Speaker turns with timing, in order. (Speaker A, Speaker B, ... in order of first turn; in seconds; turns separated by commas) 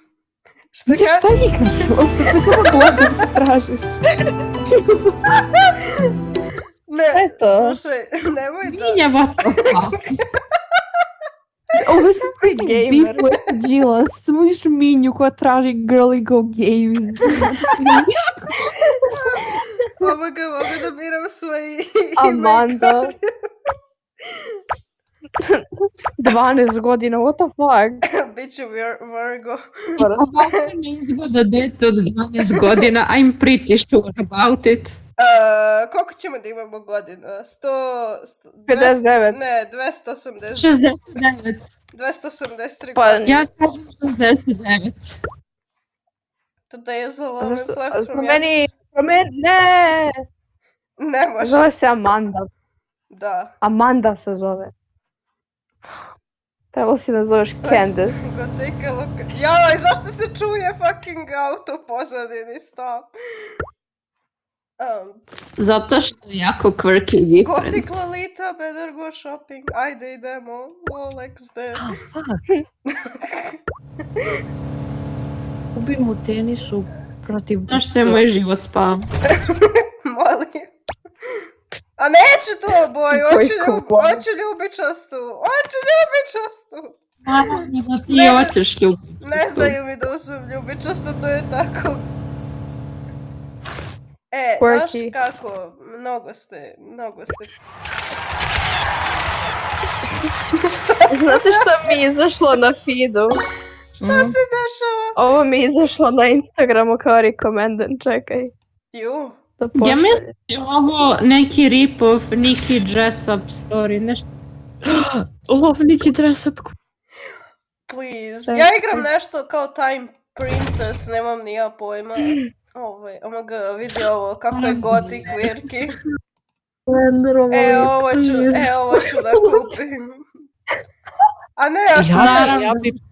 Speaker A: 0.7-1.3, Speaker B: 0.9-4.0, Speaker A: 6.9-9.8, Speaker C: 7.1-7.7, Speaker D: 8.6-10.2, Speaker B: 11.7-18.7, Speaker C: 12.3-13.3, Speaker C: 17.4-17.7, Speaker A: 18.9-23.1, Speaker C: 22.2-23.1, Speaker A: 24.3-24.9, Speaker C: 25.4-25.7, Speaker C: 26.2-28.1, Speaker A: 28.1-30.0, Speaker C: 30.0-30.5, Speaker D: 30.0-35.0, Speaker A: 32.4-32.9, Speaker A: 35.2-40.8, Speaker C: 38.7-39.4, Speaker D: 40.5-41.7, Speaker A: 41.9-43.5, Speaker C: 43.0-43.4, Speaker D: 43.3-45.2, Speaker A: 46.7-48.6, Speaker C: 47.4-50.2, Speaker A: 51.0-51.7, Speaker C: 51.4-52.5, Speaker A: 53.1-53.5, Speaker C: 53.6-54.7, Speaker C: 56.7-58.2, Speaker A: 57.6-63.1, Speaker A: 64.8-65.2, Speaker D: 65.6-67.9, Speaker A: 67.4-71.9, Speaker E: 71.8-72.4, Speaker A: 72.9-73.6, Speaker E: 75.8-78.2, Speaker D: 77.7-79.1, Speaker A: 79.3-80.7, Speaker A: 82.0-87.0, Speaker C: 83.1-84.2, Speaker D: 87.3-89.8, Speaker A: 88.1-88.6, Speaker A: 89.2-92.1, Speaker A: 94.3-97.6, Speaker C: 94.6-95.1, Speaker A: 100.6-102.6, Speaker C: 101.1-103.4, Speaker A: 104.0-105.2, Speaker E: 104.0-104.4, Speaker C: 105.2-108.5, Speaker A: 108.9-109.4, Speaker C: 109.6-110.3, Speaker D: 109.8-114.3, Speaker E: 114.8-116.8, Speaker A: 117.9-126.0, Speaker C: 118.5-119.0, Speaker D: 124.5-125.5, Speaker E: 126.9-128.9, Speaker A: 127.5-130.2, Speaker A: 131.6-132.6, Speaker E: 131.9-133.0, Speaker D: 132.1-133.0